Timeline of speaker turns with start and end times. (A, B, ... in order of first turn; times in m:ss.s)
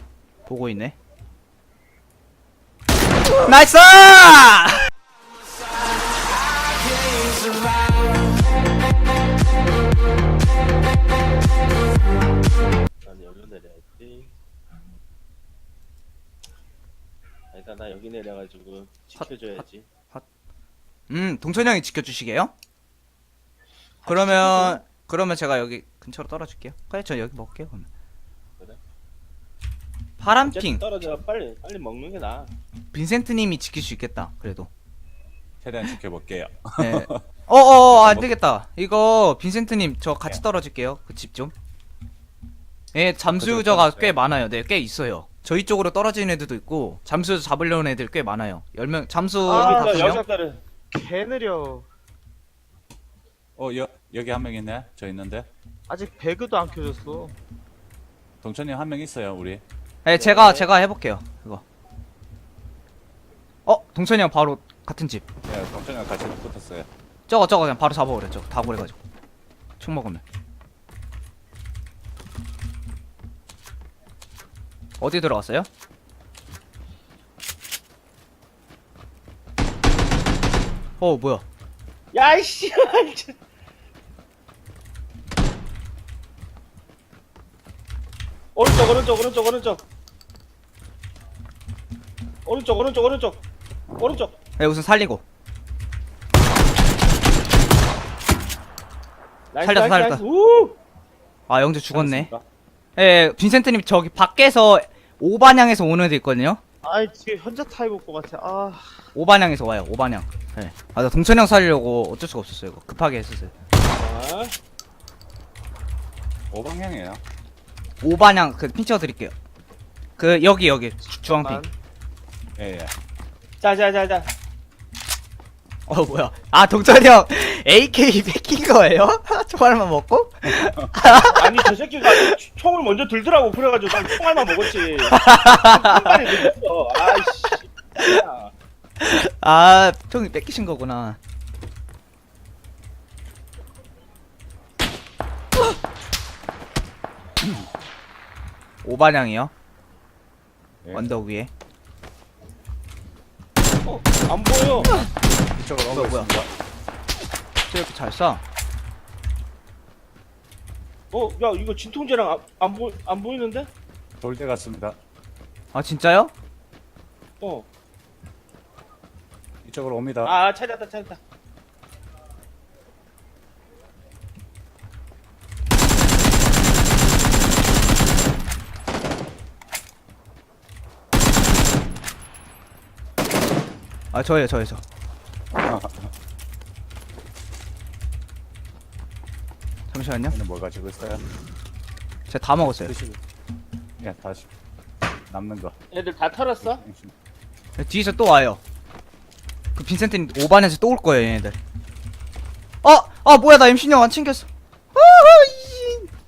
0:00.4-0:01.0 A
0:03.4-0:04.8 A
0:13.0-0:14.3 B
0:17.5-0:19.9 B
0:19.2-0:19.6 A
0:21.1-0:22.5 A
0:24.0-0:24.8 B
0:24.0-0:27.9 A
0:30.2-0:30.8 A
0:30.4-0:32.5 B
0:32.9-0:34.7 A
0:35.6-0:37.2 C
0:36.8-0:41.5 A
0:37.9-0:38.3 C
0:42.9-0:50.2 A
0:43.4-0:44.2 C
0:49.4-0:50.6 B
0:49.5-0:50.2 D
0:50.9-0:51.9 D
0:53.6-0:55.5 C
0:55.9-0:57.3 D
0:58.4-0:59.6 C
1:00.0-1:01.6 A
1:00.2-1:00.7 B
1:03.6-1:05.2 A
1:05.5-1:06.9 C
1:07.3-1:09.0 A
1:09.8-1:10.2 A
1:15.0-1:15.7 A
1:21.0-1:21.4 A
1:22.1-1:23.3 B
1:28.5-1:29.8 B
1:32.4-1:33.4 B
1:34.0-1:34.4 B
1:34.6-1:35.2 A
1:39.5-1:40.8 B
1:39.6-1:40.2 A
1:41.5-1:42.3 A
1:41.9-1:42.4 C
1:43.0-1:46.6 A
1:46.8-1:49.0 D
1:49.1-1:53.5 A
1:53.9-1:54.5 B
1:56.5-1:57.2 C
1:58.0-1:59.3 A
2:00.2-2:01.6 A
2:01.3-2:01.7 B
2:02.6-2:02.9 C
2:03.6-2:04.3 B
2:05.9-2:12.3 A
2:11.3-2:18.5 B
2:15.1-2:16.5 A
2:19.0-2:21.2 A
2:27.4-2:27.7 C
2:28.8-2:29.5 A
2:30.8-2:31.1 C
2:30.9-2:31.5 A
2:33.8-2:34.9 B
2:35.6-2:36.5 C
2:35.9-2:36.3 A
2:37.7-2:38.4 A
2:41.1-2:43.7 B
2:44.2-2:45.0 C
2:45.7-2:46.3 A
2:47.4-2:47.7 B
2:49.6-2:50.3 C
2:50.2-2:51.2 B
3:04.1-3:04.8 A
3:05.5-3:06.1 C
3:09.9-3:10.4 A
3:10.3-3:11.2 C
3:12.3-3:12.9 A
3:12.6-3:13.2 C
3:14.0-3:14.5 C
3:15.3-3:15.8 C
3:15.9-3:16.8 B
3:16.6-3:17.1 C
3:17.8-3:18.6 A
3:19.8-3:21.6 A
3:22.8-3:26.1 A